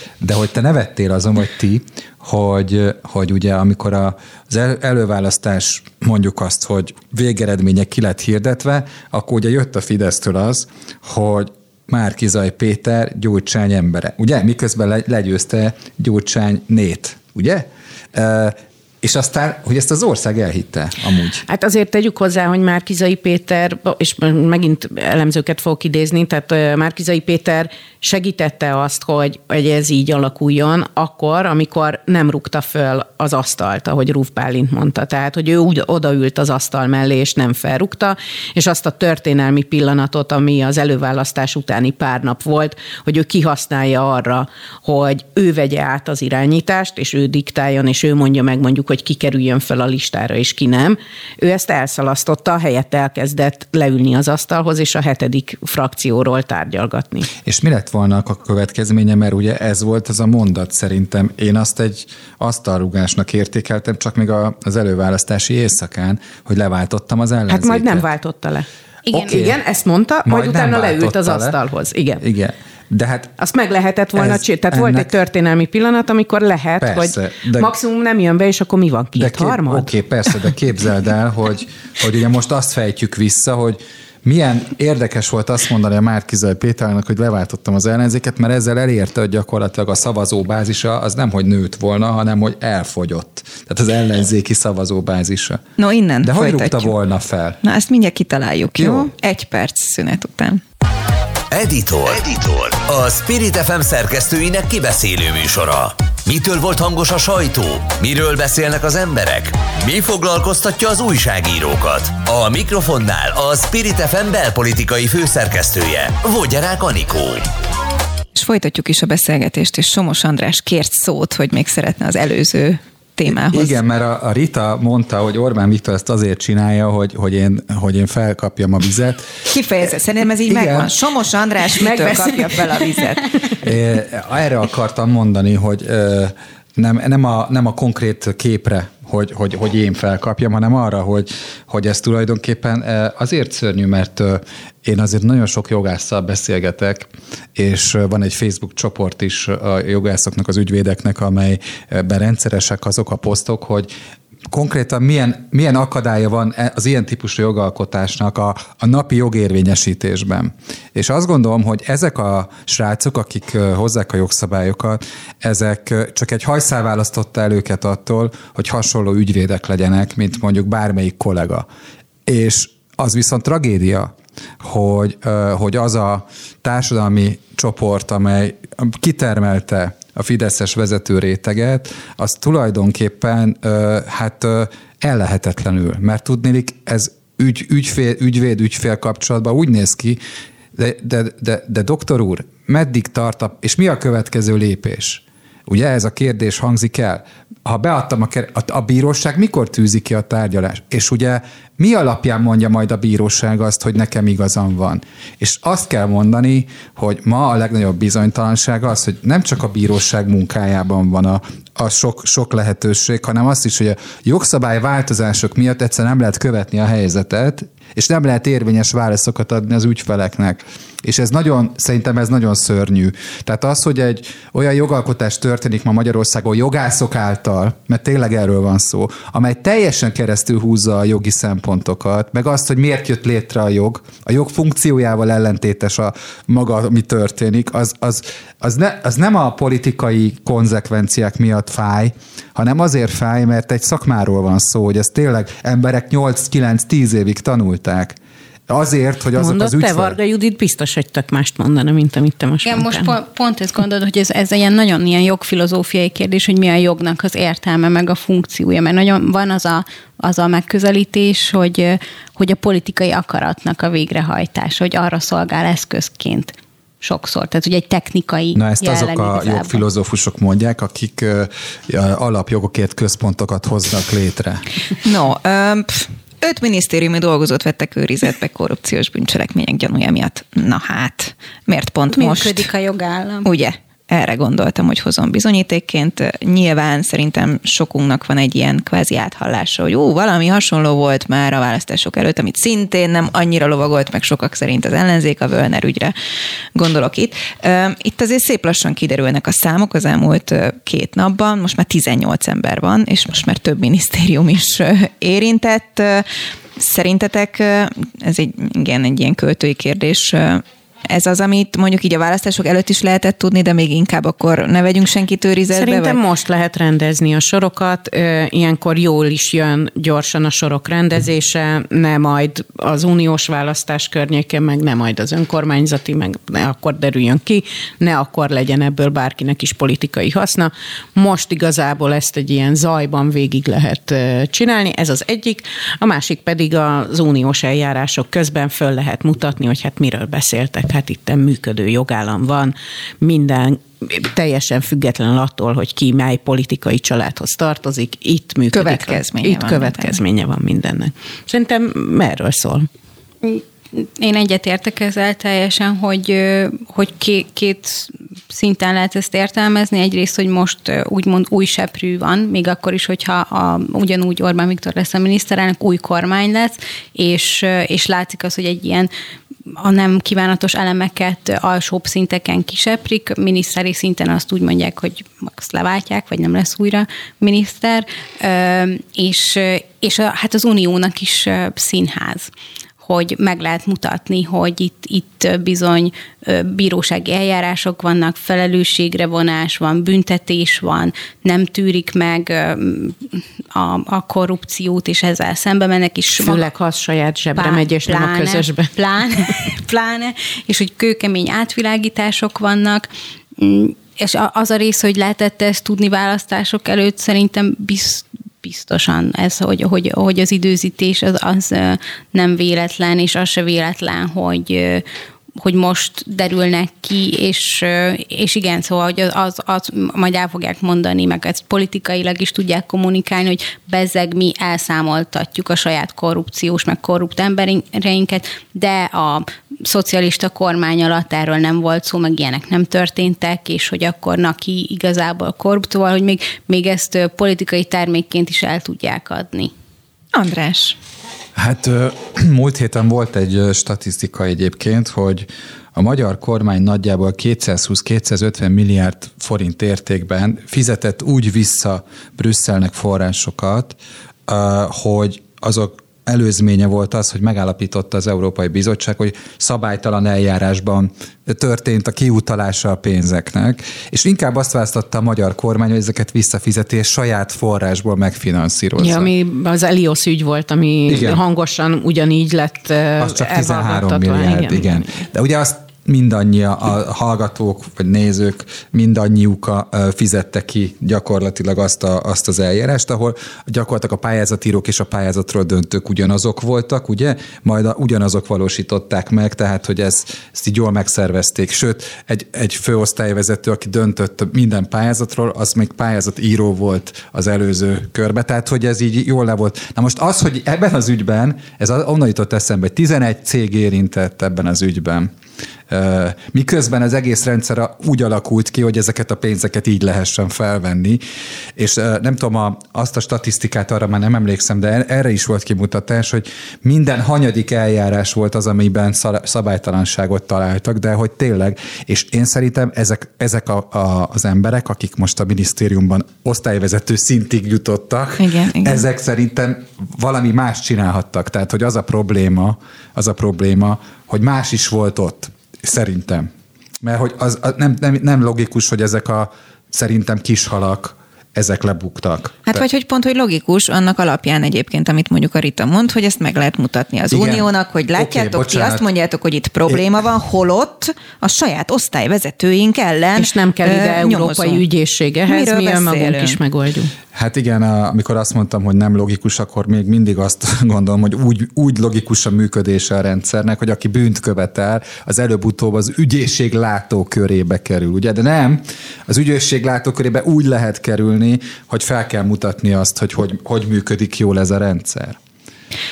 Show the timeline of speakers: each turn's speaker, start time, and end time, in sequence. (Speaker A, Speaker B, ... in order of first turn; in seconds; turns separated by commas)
Speaker A: 0.2-21.4, Speaker B: 21.5-57.3, Speaker A: 57.4-68.1, Speaker B: 67.5-72.2, Speaker C: 69.1-69.4, Speaker A: 69.2-69.6, Speaker A: 70.2-71.6, Speaker A: 72.2-73.3, Speaker B: 73.4-79.9, Speaker A: 74.2-75.1, Speaker A: 76.8-77.7, Speaker A: 79.2-95.6, Speaker D: 95.8-96.9, Speaker A: 96.2-97.6, Speaker D: 97.6-100.6, Speaker A: 98.8-99.1, Speaker E: 101.5-117.5, Speaker D: 118.3-123.8, Speaker A: 123.3-129.3, Speaker D: 129.5-133.3, Speaker A: 130.5-131.0, Speaker B: 131.7-133.5, Speaker A: 133.6-153.9, Speaker A: 154.5-171.7, Speaker A: 172.3-190.2, Speaker A: 190.8-248.2, Speaker A: 248.7-250.2, Speaker B: 249.4-253.1, Speaker C: 252.6-269.8, Speaker A: 268.6-274.6, Speaker D: 275.0-282.7, Speaker C: 282.1-283.5, Speaker D: 283.4-296.1, Speaker D: 296.8-316.2, Speaker B: 315.7-352.9, Speaker D: 348.7-350.2, Speaker C: 353.4-369.1, Speaker C: 369.8-396.6, Speaker B: 396.3-398.9, Speaker C: 397.6-415.0, Speaker C: 415.6-439.7, Speaker D: 440.3-441.0, Speaker A: 441.6-469.3, Speaker B: 469.0-475.1, Speaker A: 471.1-471.4, Speaker A: 473.2-505.3, Speaker A: 505.9-511.2, Speaker A: 511.8-536.5, Speaker D: 528.4-529.0, Speaker A: 537.0-542.9, Speaker D: 542.7-554.8, Speaker A: 547.3-549.0, Speaker B: 553.4-557.1, Speaker D: 555.5-556.6, Speaker A: 557.3-575.4